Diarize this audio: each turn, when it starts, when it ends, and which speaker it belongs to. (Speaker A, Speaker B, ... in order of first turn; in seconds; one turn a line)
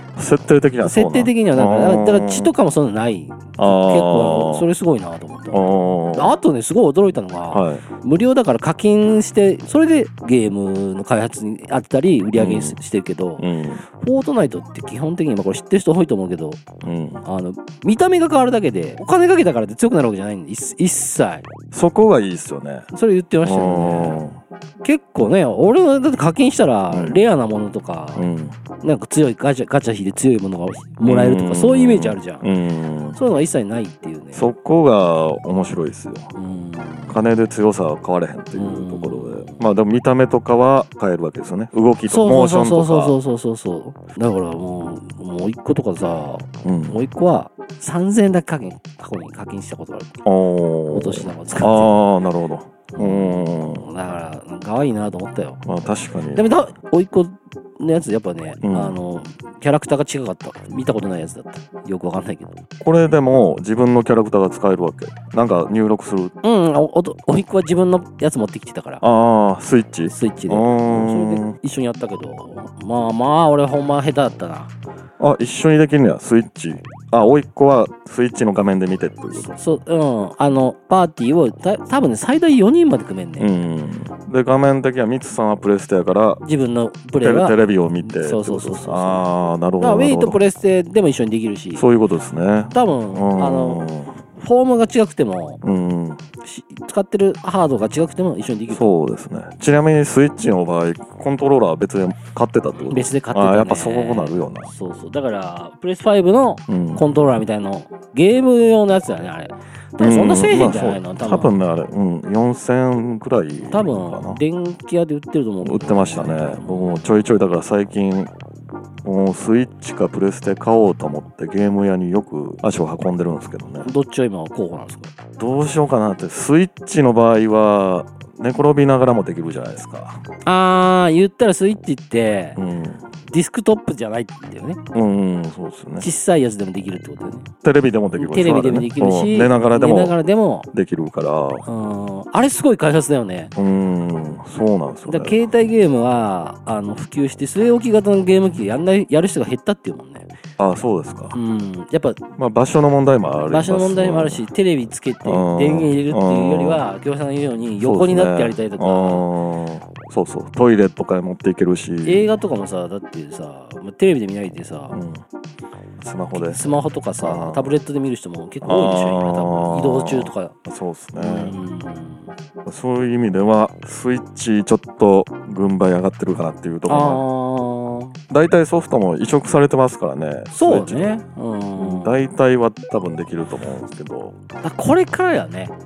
Speaker A: 0.1-2.5
Speaker B: 0.8-16.7
Speaker A: 3.6-4.7
Speaker A: 5.5-6.4
Speaker A: 7.5-7.8
Speaker A: 12.4-12.8
Speaker A: 13.4-13.8
Speaker A: 16.8-17.2
Speaker B: 17.2-21.5
Speaker A: 21.7-22.9
Speaker B: 22.9-24.2
Speaker A: 23.4-24.4
Speaker B: 24.8-28.3
Speaker A: 26.9-27.2
Speaker A: 28.1-28.6
Speaker B: 28.8-32.5
Speaker A: 31.0-33.2
Speaker B: 33.1-34.5
Speaker A: 34.4-36.3
Speaker B: 36.4-37.2
Speaker A: 37.1-43.1
Speaker B: 38.5-39.6
Speaker B: 42.1-50.2
Speaker A: 46.6-47.0
Speaker A: 50.2-53.9
Speaker B: 50.9-52.0
Speaker B: 52.9-55.6
Speaker A: 55.6-56.5
Speaker B: 56.3-62.6
Speaker A: 58.6-59.0
Speaker A: 62.8-66.3
Speaker B: 66.4-69.0
Speaker A: 69.0-71.6
Speaker B: 70.1-74.7
Speaker A: 75.2-79.5
Speaker B: 79.3-83.5
Speaker A: 83.4-86.4
Speaker B: 86.4-91.9
Speaker A: 87.2-90.4
Speaker A: 91.8-94.2
Speaker B: 92.7-95.6
Speaker A: 95.6-96.2
Speaker B: 96.4-98.9
Speaker A: 98.7-104.7
Speaker B: 102.9-111.5
Speaker A: 106.7-107.1
Speaker A: 110.0-114.4
Speaker B: 113.7-117.0
Speaker A: 115.6-118.3
Speaker A: 119.0-123.9
Speaker B: 123.8-125.1
Speaker A: 125.4-130.2
Speaker B: 130.4-132.6
Speaker A: 132.6-133.1
Speaker B: 133.3-134.8
Speaker A: 134.9-136.1
Speaker B: 136.0-137.5
Speaker A: 137.6-140.2
Speaker B: 138.2-140.7
Speaker A: 140.7-141.6
Speaker B: 141.6-143.5
Speaker A: 143.6-145.4
Speaker B: 145.1-150.3
Speaker A: 150.6-151.4
Speaker B: 151.3-152.2
Speaker A: 152.4-154.5
Speaker B: 153.4-159.3
Speaker A: 155.2-156.8
Speaker A: 157.8-162.3
Speaker B: 162.0-165.0
Speaker A: 164.9-165.2
Speaker A: 166.0-166.7
Speaker B: 166.3-170.6
Speaker A: 167.2-167.8
Speaker A: 168.6-171.6
Speaker B: 171.2-172.3
Speaker A: 172.6-177.2
Speaker B: 176.9-178.2
Speaker A: 178.3-181.2
Speaker B: 180.5-182.2
Speaker A: 181.8-184.4
Speaker B: 184.6-185.8